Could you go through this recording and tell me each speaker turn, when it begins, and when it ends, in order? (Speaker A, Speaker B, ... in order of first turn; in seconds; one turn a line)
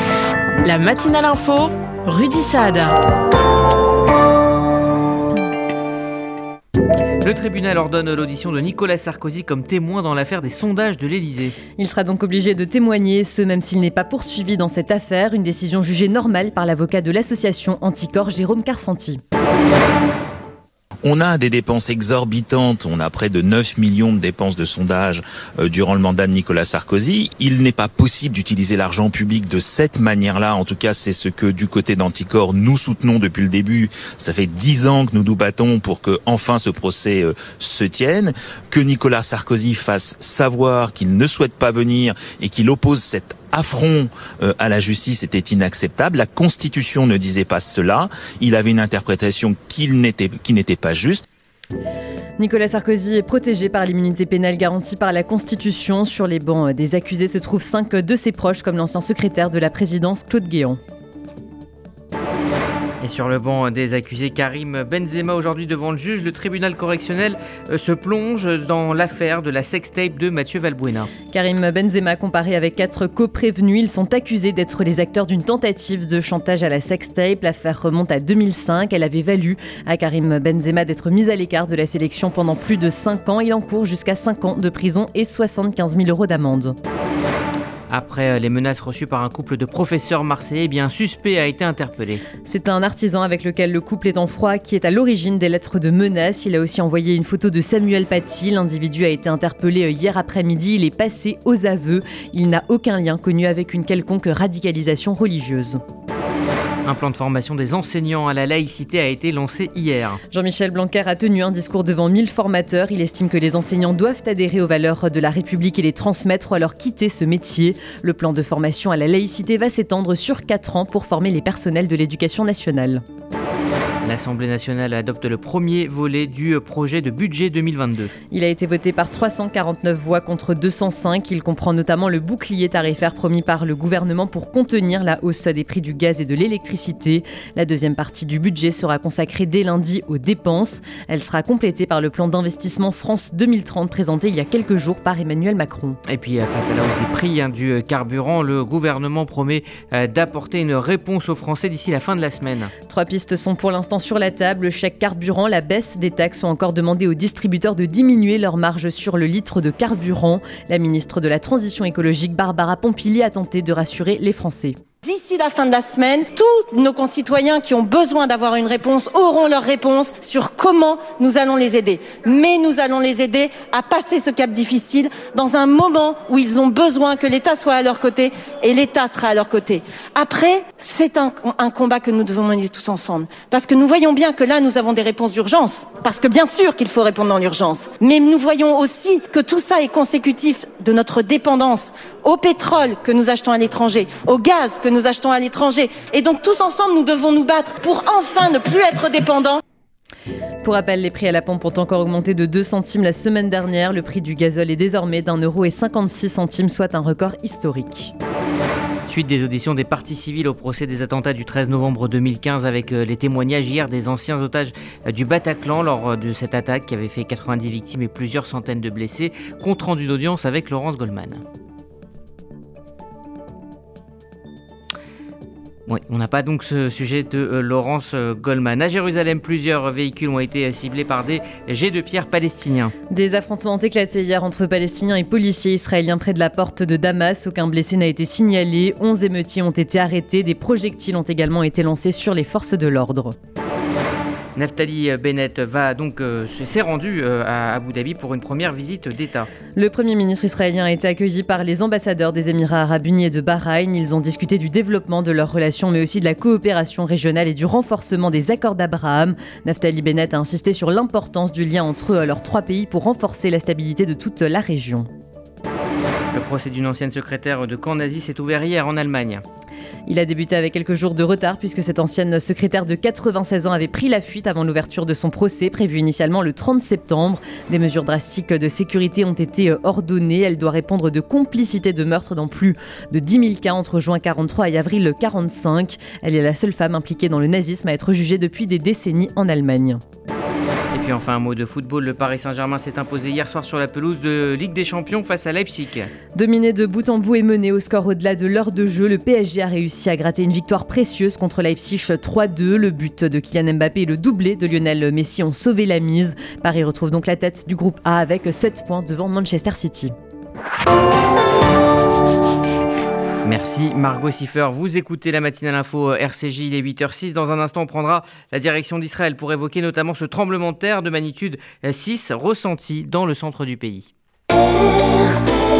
Speaker A: 0.6-3.0
Speaker B: 7.2-11.6
Speaker C: 11.8-19.2
Speaker D: 21.0-51.2
Speaker C: 52.4-60.8
Speaker B: 63.0-71.1
Speaker C: 71.3-86.8
Speaker B: 87.9-92.2
Speaker C: 92.5-105.8
Speaker B: 106.8-110.2
Speaker C: 110.3-123.0
Speaker B: 124.0-128.1
Speaker C: 128.3-146.0
Speaker B: 146.1-152.7
Speaker C: 152.9-164.8
Speaker E: 165.0-199.6
Speaker C: 200.6-208.1
Speaker B: 209.1-221.4
Speaker B: 225.9-232.9
Speaker C: 233.1-243.4
Speaker B: 244.6-249.5
Speaker C: 249.8-265.1
Speaker B: 266.3-269.4
Speaker C: 270.1-290.0
Speaker B: 290.9-296.1
Speaker C: 296.4-310.1
Speaker B: 313.4-324.1